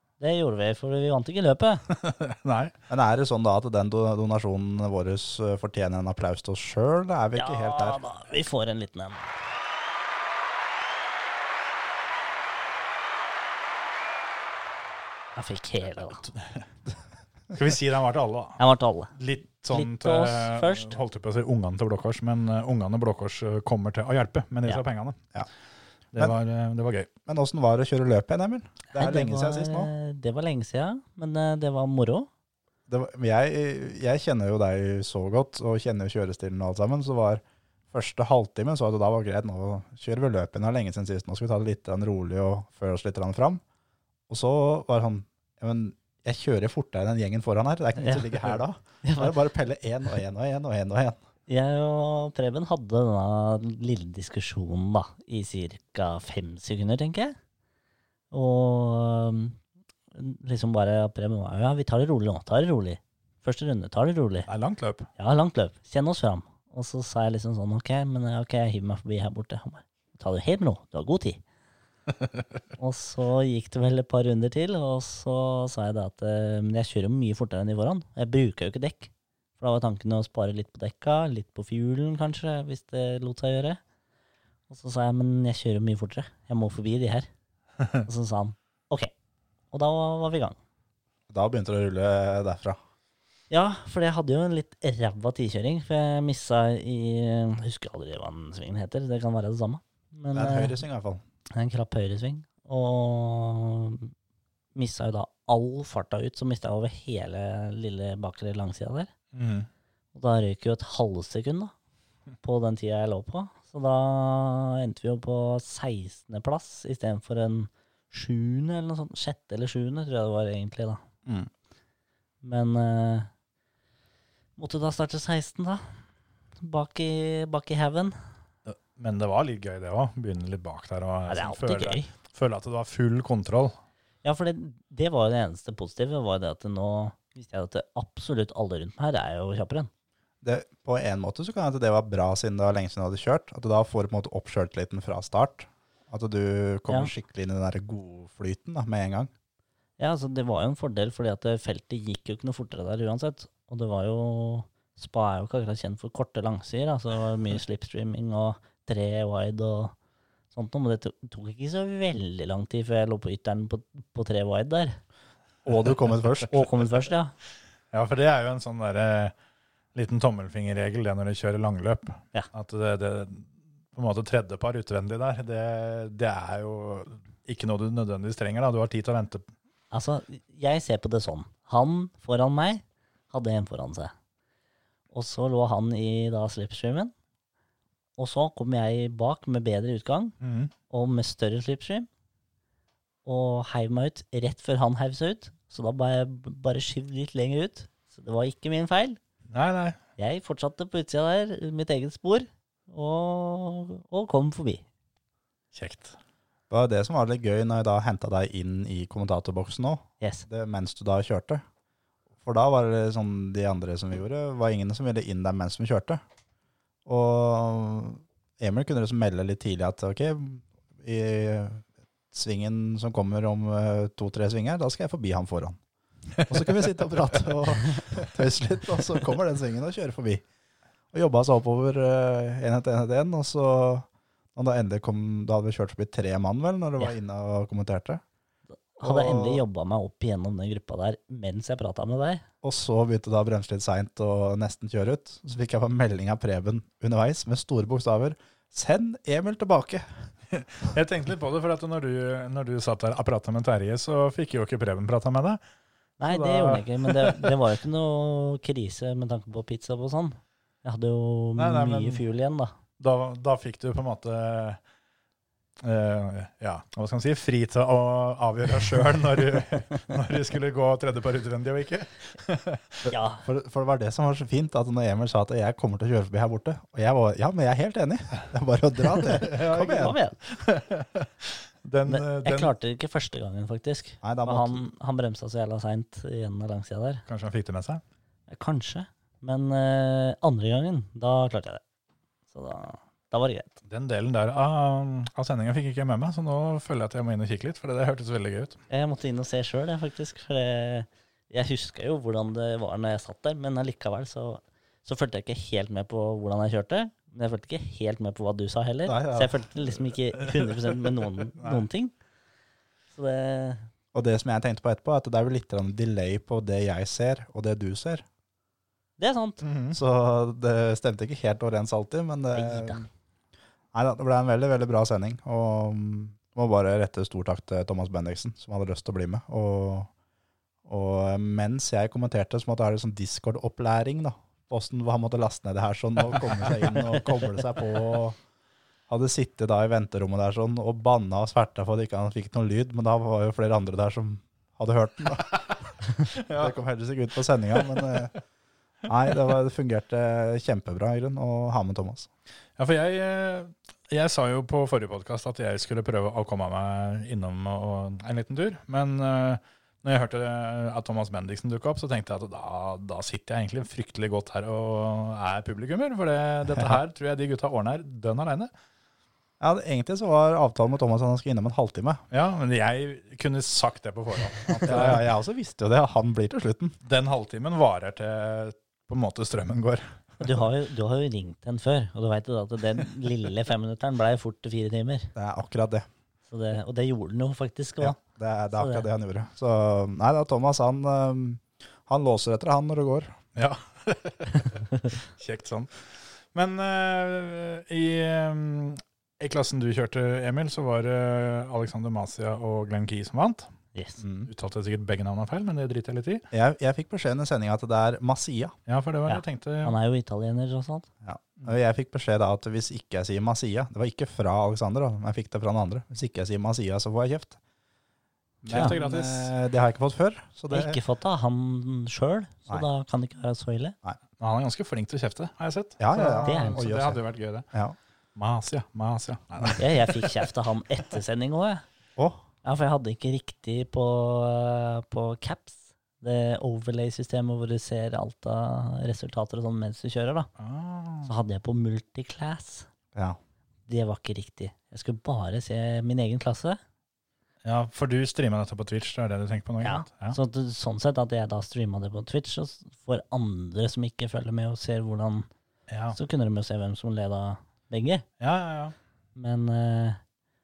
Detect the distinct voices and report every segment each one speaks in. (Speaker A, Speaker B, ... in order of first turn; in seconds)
Speaker A: 0.2-1.8, 7.3-9.2, 15.3-16.2, 18.6-19.1, 19.7-21.0, 28.9-32.3, 48.0-48.4, 49.0-49.4, 51.5-57.4, 58.3-59.6, 60.1-64.5, 65.2-71.4, 72.8-83.8, 84.7-87.3, 88.0-89.1, 89.7-90.6, 93.5-100.8, 101.5-104.1, 104.7-109.1, 110.1-111.7, 112.4-121.0, 122.4-123.3, 124.6-125.8, 126.6-128.2, 131.3-132.1, 134.2-139.9, 150.0-159.9, 160.5-165.0, 166.5-167.3, 179.9-184.1, 185.1-187.1, 188.2-190.3, 190.9-192.1, 193.2-199.2, 200.2-204.8, 239.0-242.4, 256.2-262.7, 273.1-273.4, 279.3-280.4, 282.1-287.2, 288.5-291.8, 292.5-293.8, 298.9-312.1, 313.1-313.9, 319.2-319.6, 322.5-323.0, 380.4-385.3, 386.5-388.2, 388.7-389.1, 403.9-404.2, 409.3-411.1, 418.7-418.9, 420.7-423.9, 426.4-426.8, 429.8-431.8, 432.6-440.5, 441.2-442.9, 443.9-446.8, 449.8-455.5, 456.1-458.2, 459.4-460.2
Speaker B: 1.9-2.7, 17.5-18.6, 19.1-25.2, 26.1-27.1, 64.5-65.1, 109.3-109.7, 128.7-133.7, 167.9-169.3, 169.9-179.5, 190.4-190.7, 199.5-200.0, 205.7-206.2, 250.5-255.6, 256.2-257.5, 261.6-262.2, 263.0-264.8, 265.8-273.1, 279.3-282.7, 287.3-288.0, 293.9-298.8, 319.6-320.0, 346.3-346.7, 352.8-368.7, 372.3-375.2, 377.0-380.2, 393.6-403.7, 404.4-406.4, 408.9-409.9, 418.7-419.5, 424.4-427.7, 428.4-430.2, 440.6-441.3, 447.6-450.4, 455.9-456.2, 458.4-458.9
Speaker C: 2.9-8.0, 27.2-29.9, 32.9-43.6, 44.3-51.2, 91.3-92.8, 100.3-101.2, 140.4-149.3, 165.6-166.7, 206.7-211.6, 212.4-216.2, 217.1-225.8, 226.5-230.4, 231.1-238.2, 239.0-239.6, 242.6-250.1, 273.4-280.1, 284.2-284.8, 309.1-309.6, 314.1-318.2, 319.9-323.1, 323.9-330.1, 330.9-338.4, 339.1-345.7, 346.5-348.3, 349.1-352.3, 369.6-372.2, 374.8-377.0, 385.3-386.1, 388.0-393.3, 404.2-404.5, 406.5-408.7, 411.2-417.6, 418.6-421.0, 426.0-427.9, 432.2-432.4